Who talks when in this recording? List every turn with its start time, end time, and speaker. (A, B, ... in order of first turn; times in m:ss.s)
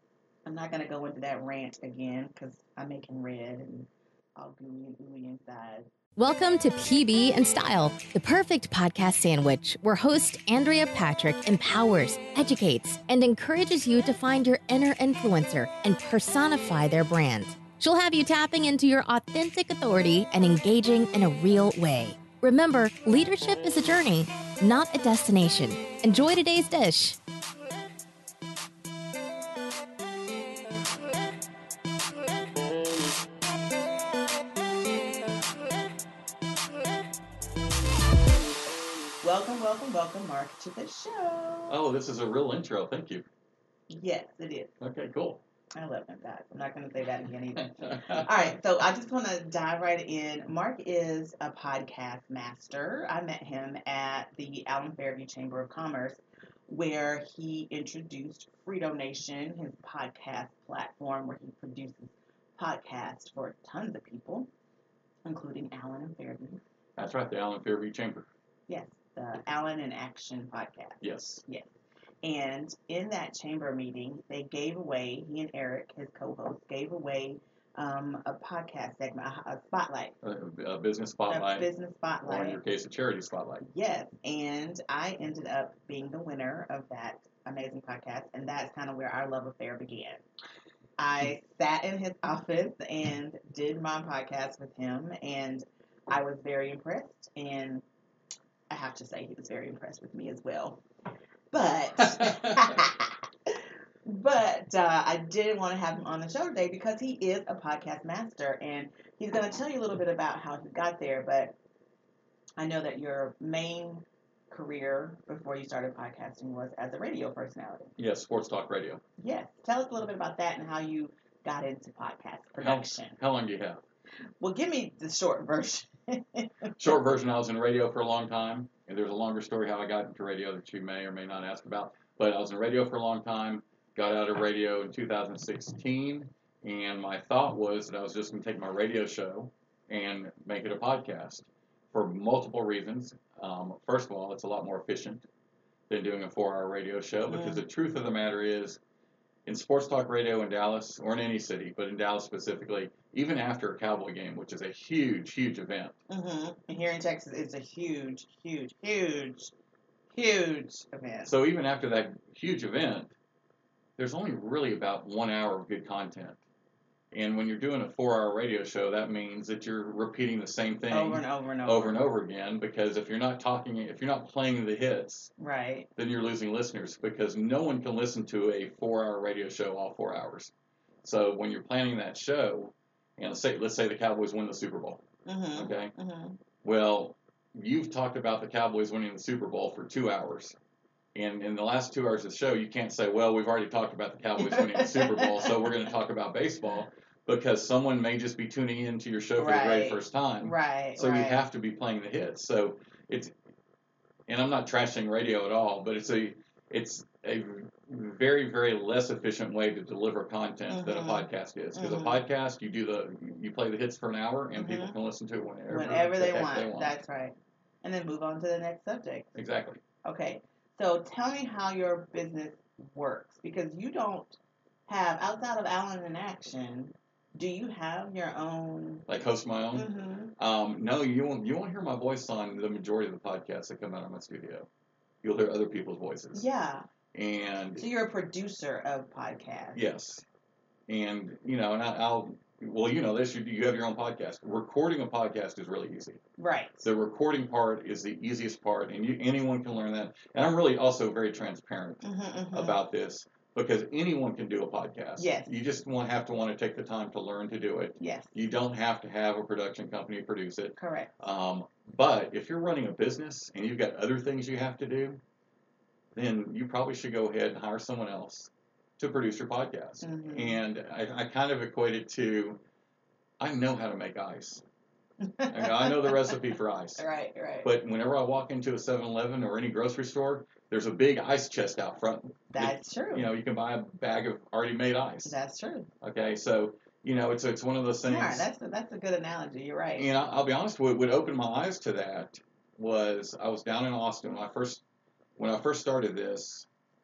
0:00.4-0:05.9 A
0:06.2-0:27.2 B
0:39.2-0:41.8 A
0:41.7-0:43.2 C
0:43.9-0:44.7 A
0:44.8-0:45.4 C
0:45.8-1:04.5 A
0:47.6-0:48.5 C
1:05.2-1:06.6 A
1:07.0-1:08.3 C
1:08.7-1:11.7 A
1:11.0-1:11.4 C
1:12.2-1:20.1 A
1:20.2-1:21.7 C
1:21.3-1:22.6 A
1:22.2-1:23.6 C
1:23.6-1:30.2 A
1:31.0-1:37.8 A
1:38.7-1:40.8 A
1:41.5-1:43.1 A
1:44.0-1:51.5 A
1:52.6-1:57.9 A
1:58.0-1:59.0 C
1:59.2-2:03.2 A
2:02.6-2:03.8 C
2:04.4-2:06.7 A
2:06.8-2:25.3 C
2:25.9-2:28.8 C
2:27.3-2:27.6 A
2:29.4-2:36.0 C
2:36.1-2:39.5 A
2:40.1-2:41.3 A
2:41.2-2:43.1 C
2:44.0-2:46.4 C
2:47.1-2:55.3 C
2:50.9-2:52.0 A
2:55.4-2:55.9 A
2:56.0-3:05.0 C
3:05.2-3:06.4 A
3:05.5-3:05.9 C
3:06.6-3:10.6 C
3:11.1-3:23.3 C
3:14.4-3:15.6 A
3:19.4-3:21.4 A
3:24.3-3:37.0 C
3:30.7-3:32.2 A
3:34.6-3:35.0 A
3:35.7-3:39.3 A
3:39.3-3:39.8 C
3:40.0-3:49.0 A
3:49.1-3:54.7 C
3:49.7-3:50.3 A
3:55.2-3:56.5 C
3:56.3-3:56.8 A
3:57.1-3:57.8 C
3:57.8-3:59.8 A
3:59.7-4:00.2 C
4:00.9-4:06.2 C
4:06.4-4:06.8 A
4:06.8-4:25.2 C
4:12.0-4:12.8 A
4:15.2-4:15.5 A
4:18.0-4:18.3 A
4:20.8-4:21.2 A
4:26.1-4:32.6 C
4:30.0-4:30.6 A
4:33.4-4:34.6 C
4:35.2-4:36.4 A
4:35.5-4:37.0 C
4:37.0-4:37.7 A
4:37.6-4:45.4 C
4:42.5-4:43.3 A
4:45.2-4:45.9 A
4:46.0-4:48.5 C
4:48.0-4:50.1 A
4:50.0-4:54.8 C
4:55.4-4:56.7 C